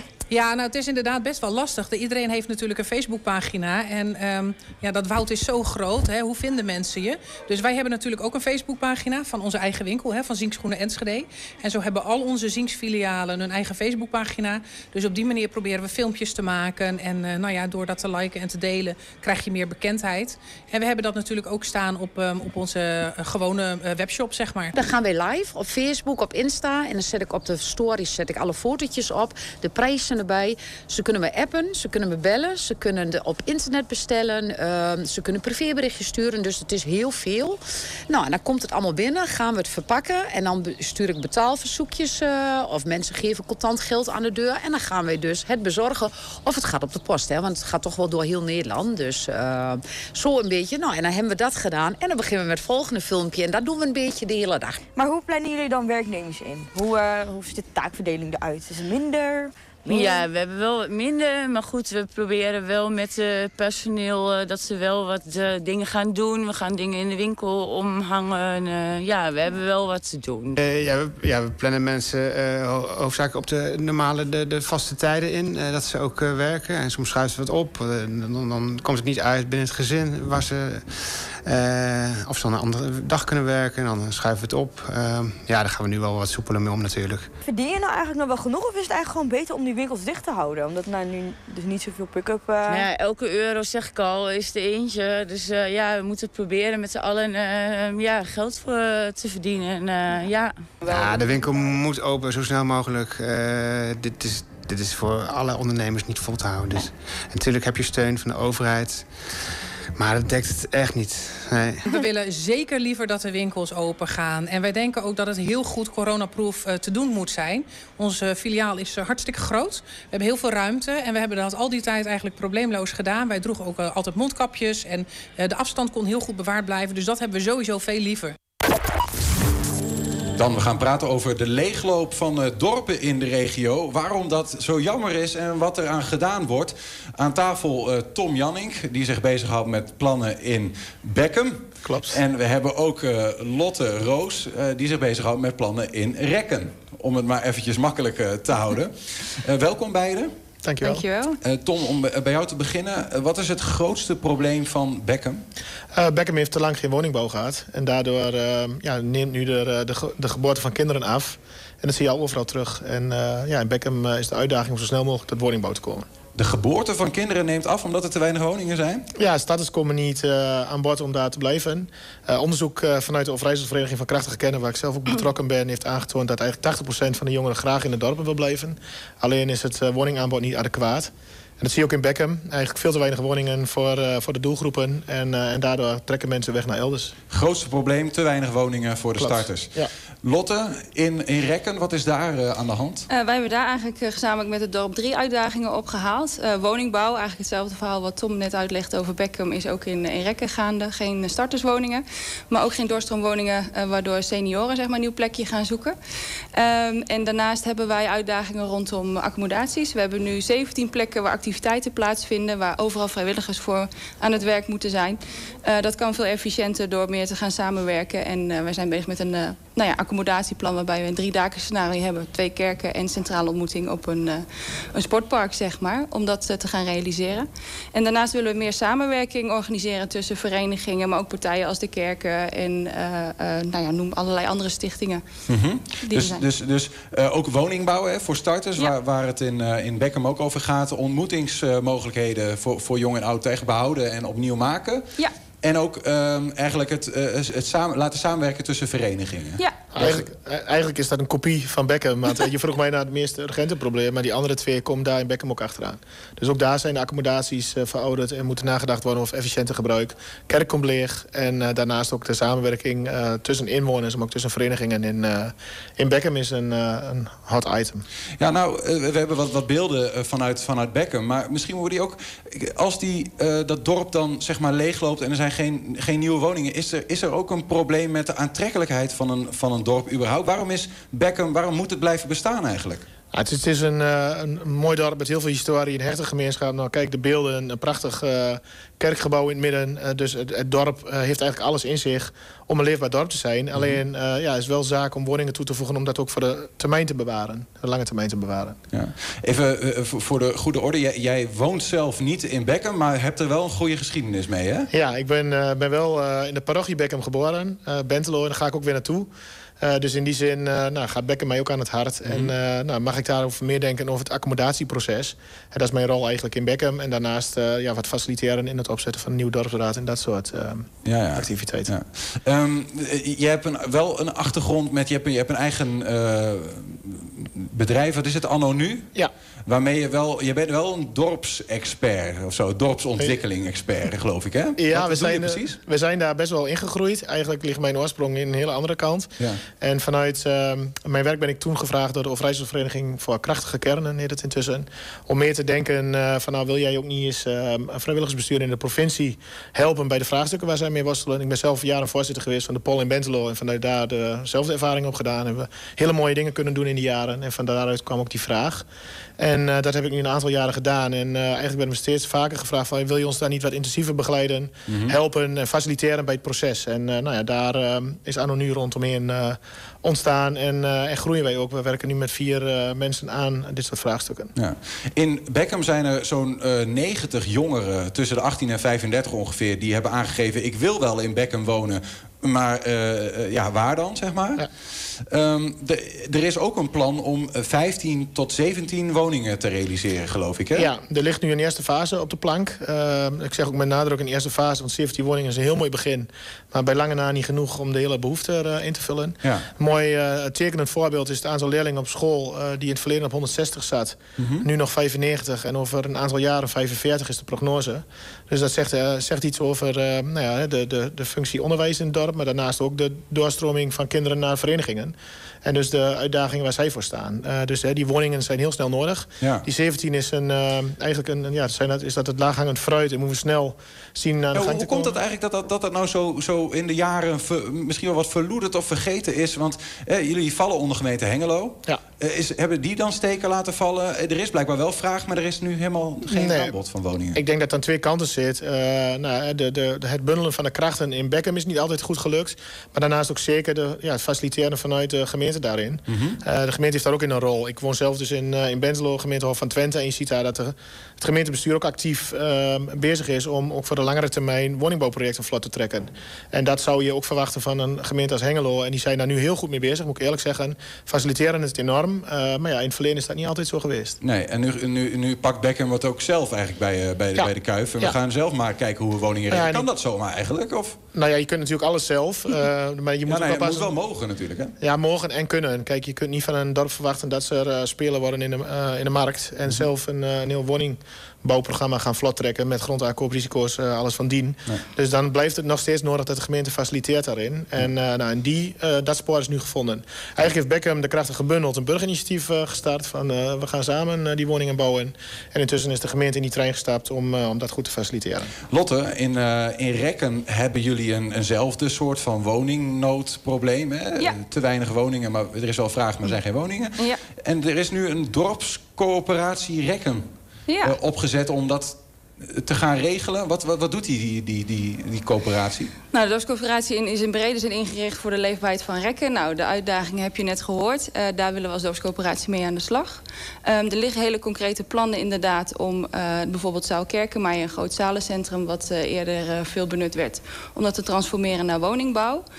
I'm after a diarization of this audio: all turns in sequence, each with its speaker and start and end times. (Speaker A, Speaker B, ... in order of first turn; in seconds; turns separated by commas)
Speaker A: 0.3-24.7, Speaker B: 24.7-54.8, Speaker C: 55.0-60.3, Speaker D: 59.9-70.5, Speaker E: 70.6-87.3, Speaker C: 87.4-92.9, Speaker D: 92.7-100.5, Speaker E: 100.9-111.9, Speaker A: 111.9-128.4, Speaker F: 130.4-150.3, Speaker G: 141.8-142.2, Speaker G: 150.6-151.0, Speaker H: 150.8-151.4, Speaker F: 151.4-155.4, Speaker G: 155.9-166.1, Speaker F: 166.3-169.1, Speaker G: 169.2-187.2, Speaker F: 187.3-193.1, Speaker G: 189.2-189.9, Speaker H: 193.1-206.0, Speaker H: 206.6-235.2, Speaker F: 235.5-245.1, Speaker H: 236.0-236.4, Speaker F: 245.6-250.3, Speaker G: 249.9-268.1, Speaker F: 268.4-283.1, Speaker G: 283.3-298.8, Speaker F: 298.9-304.9, Speaker G: 304.9-309.3, Speaker G: 309.8-321.9, Speaker F: 312.3-312.5, Speaker F: 321.1-329.1, Speaker F: 329.7-335.8, Speaker G: 334.8-358.9, Speaker G: 359.4-374.5, Speaker F: 364.9-365.2, Speaker F: 374.6-390.9, Speaker G: 390.8-425.2, Speaker F: 404.4-404.6, Speaker F: 424.5-437.4, Speaker G: 436.3-436.7, Speaker G: 437.4-464.2, Speaker F: 446.1-446.4, Speaker F: 464.2-471.0, Speaker G: 469.5-469.9, Speaker G: 471.1-473.9, Speaker F: 473.3-474.7, Speaker G: 474.8-498.5, Speaker F: 498.7-510.3, Speaker H: 510.7-510.9, Speaker F: 510.8-515.9, Speaker H: 516.1-532.5